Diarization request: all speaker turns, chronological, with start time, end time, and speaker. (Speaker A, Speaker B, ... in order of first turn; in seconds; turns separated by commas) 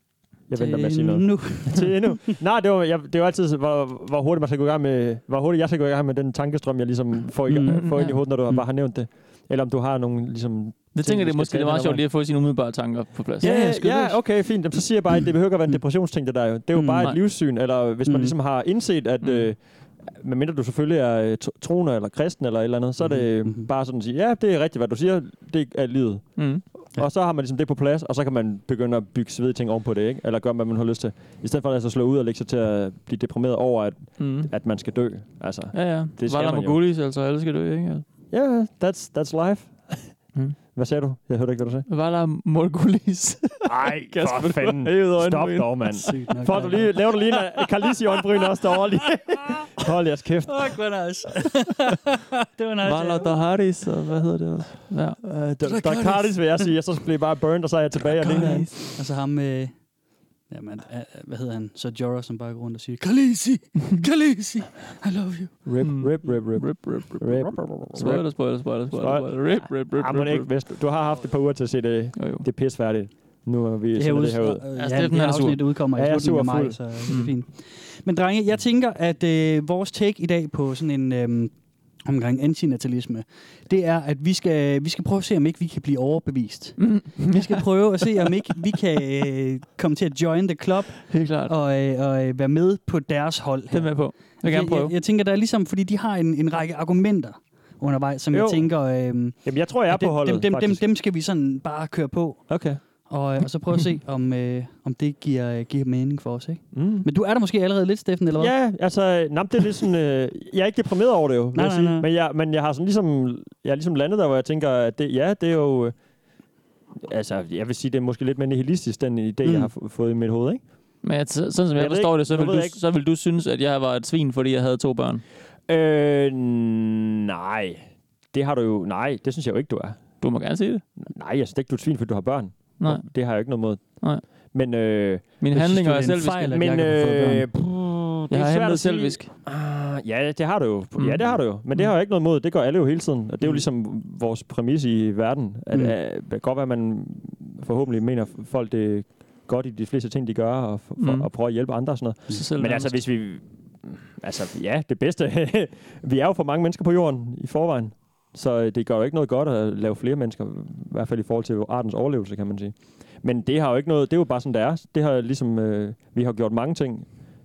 Speaker A: 0.5-12.0, Speaker B: 0.5-2.2, Speaker B: 7.5-8.6, Speaker C: 7.7-8.2, Speaker C: 10.9-14.2, Speaker B: 13.4-14.0, Speaker A: 13.4-36.8, Speaker B: 16.7-17.1, Speaker B: 18.0-18.4, Speaker C: 19.2-19.5, Speaker B: 23.0-23.7, Speaker C: 26.4-26.6, Speaker C: 34.2-34.5, Speaker C: 35.7-38.0, Speaker A: 38.3-40.2, Speaker A: 40.7-41.9, Speaker C: 41.9-46.1, Speaker A: 43.6-50.8, Speaker B: 46.0-47.2, Speaker B: 50.5-53.3, Speaker C: 52.8-55.2, Speaker A: 55.2-58.7, Speaker B: 55.6-56.7, Speaker B: 58.2-65.6, Speaker C: 58.4-58.7, Speaker A: 65.6-74.6, Speaker C: 65.8-70.5, Speaker C: 72.2-72.4, Speaker B: 74.0-108.5, Speaker C: 74.8-75.7, Speaker A: 75.9-76.8, Speaker C: 86.8-88.3, Speaker C: 91.1-91.5, Speaker C: 93.7-94.9, Speaker A: 98.3-98.7, Speaker A: 99.4-100.8, Speaker A: 102.5-102.8, Speaker A: 106.7-107.1, Speaker A: 108.4-115.9, Speaker B: 111.5-112.1, Speaker A: 117.0-120.6, Speaker B: 119.4-119.7, Speaker C: 121.0-125.2, Speaker A: 121.7-122.8, Speaker A: 125.7-130.0, Speaker C: 130.2-130.8, Speaker A: 131.1-167.1, Speaker C: 132.8-133.1, Speaker C: 135.4-136.8, Speaker B: 135.6-137.5, Speaker C: 138.3-139.3, Speaker C: 141.0-141.9, Speaker C: 151.0-151.3, Speaker C: 152.3-153.0